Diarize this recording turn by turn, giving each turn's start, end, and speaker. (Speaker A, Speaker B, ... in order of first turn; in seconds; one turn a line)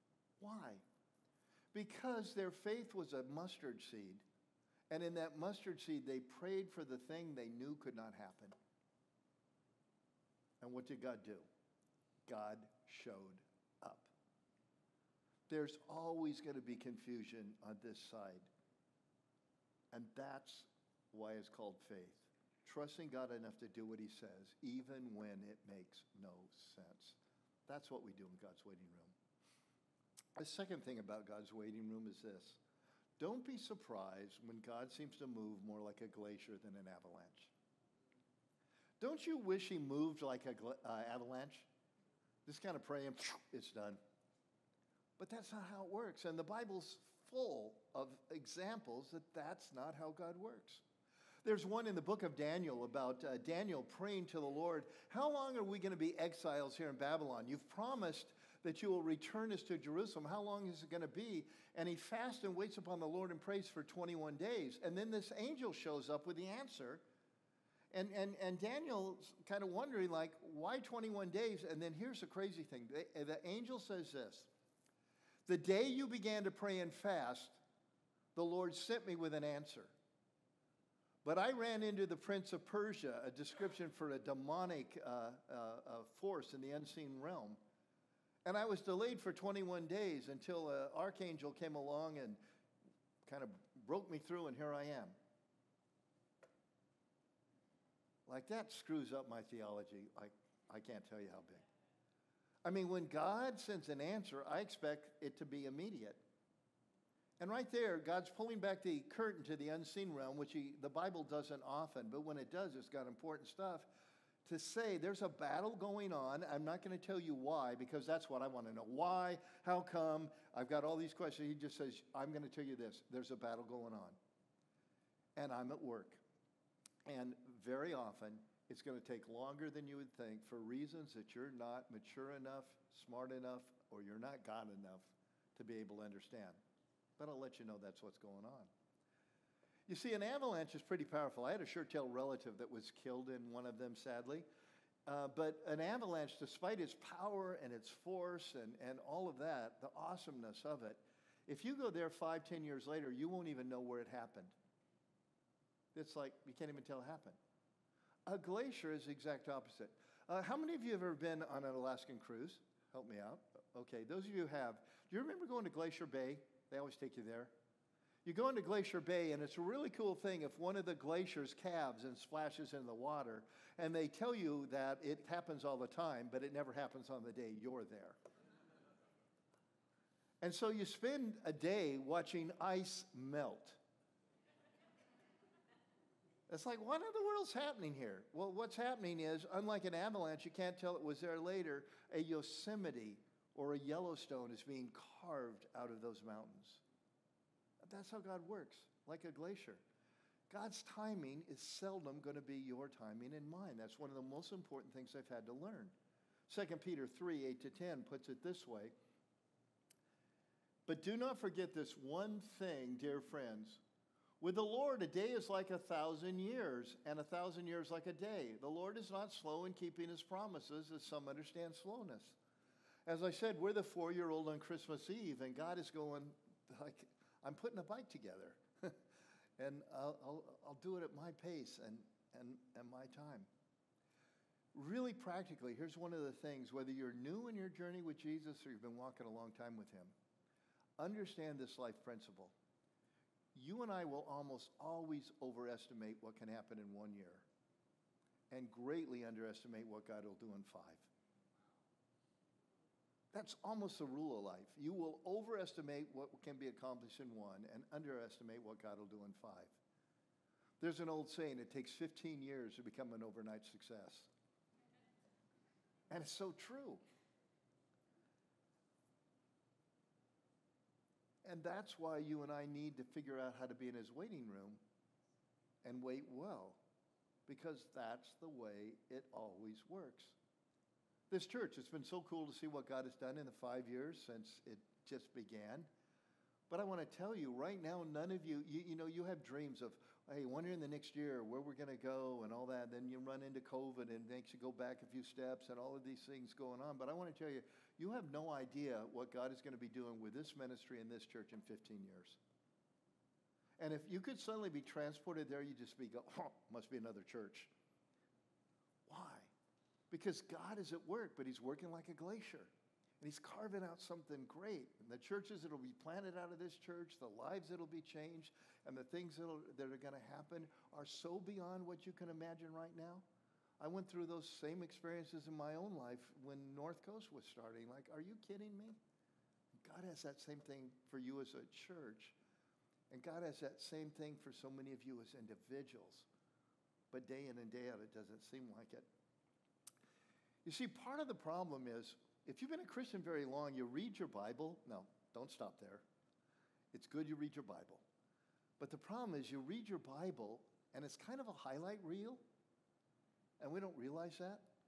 Speaker A: 0.4-0.8
Speaker A: 1.7-4.2
Speaker A: 4.9-8.6
Speaker A: 10.6-11.4
Speaker A: 12.3-14.1
Speaker A: 15.5-18.5
Speaker A: 19.9-29.1
Speaker A: 30.4-32.6
Speaker A: 33.2-37.5
Speaker A: 39.0-41.7
Speaker A: 42.5-44.0
Speaker A: 45.2-50.8
Speaker A: 51.4-67.0
Speaker A: 67.9-74.5
Speaker A: 75.5-77.6
Speaker A: 78.3-79.9
Speaker A: 81.2-87.6
Speaker A: 88.4-92.4
Speaker A: 93.2-95.1
Speaker A: 98.2-101.6
Speaker A: 102.6-106.2
Speaker A: 107.4-113.9
Speaker A: 114.4-124.2
Speaker A: 125.3-126.2
Speaker A: 127.0-136.6
Speaker A: 137.2-138.7
Speaker A: 139.9-144.4
Speaker A: 145.1-154.5
Speaker A: 155.9-157.4
Speaker A: 158.3-167.5
Speaker A: 168.2-178.2
Speaker A: 180.4-183.8
Speaker A: 186.5-196.8
Speaker A: 197.8-199.8
Speaker A: 200.5-205.9
Speaker A: 206.5-208.9
Speaker A: 210.8-213.8
Speaker A: 214.4-222.4
Speaker A: 223.1-229.0
Speaker A: 229.6-233.5
Speaker A: 234.7-240.1
Speaker A: 241.0-242.5
Speaker A: 243.5-247.4
Speaker A: 248.5-251.1
Speaker A: 253.3-259.8
Speaker A: 260.8-264.3
Speaker A: 266.1-267.0
Speaker A: 271.4-274.8
Speaker A: 275.8-276.8
Speaker A: 277.5-280.4
Speaker A: 281.3-285.9
Speaker A: 286.7-302.4
Speaker A: 303.8-307.7
Speaker A: 309.1-309.5
Speaker A: 310.1-312.7
Speaker A: 313.2-323.2
Speaker A: 323.8-329.0
Speaker A: 329.8-332.4
Speaker A: 333.1-336.3
Speaker A: 337.1-339.1
Speaker A: 340.6-346.0
Speaker A: 346.9-348.0
Speaker A: 348.8-352.4
Speaker A: 353.6-354.6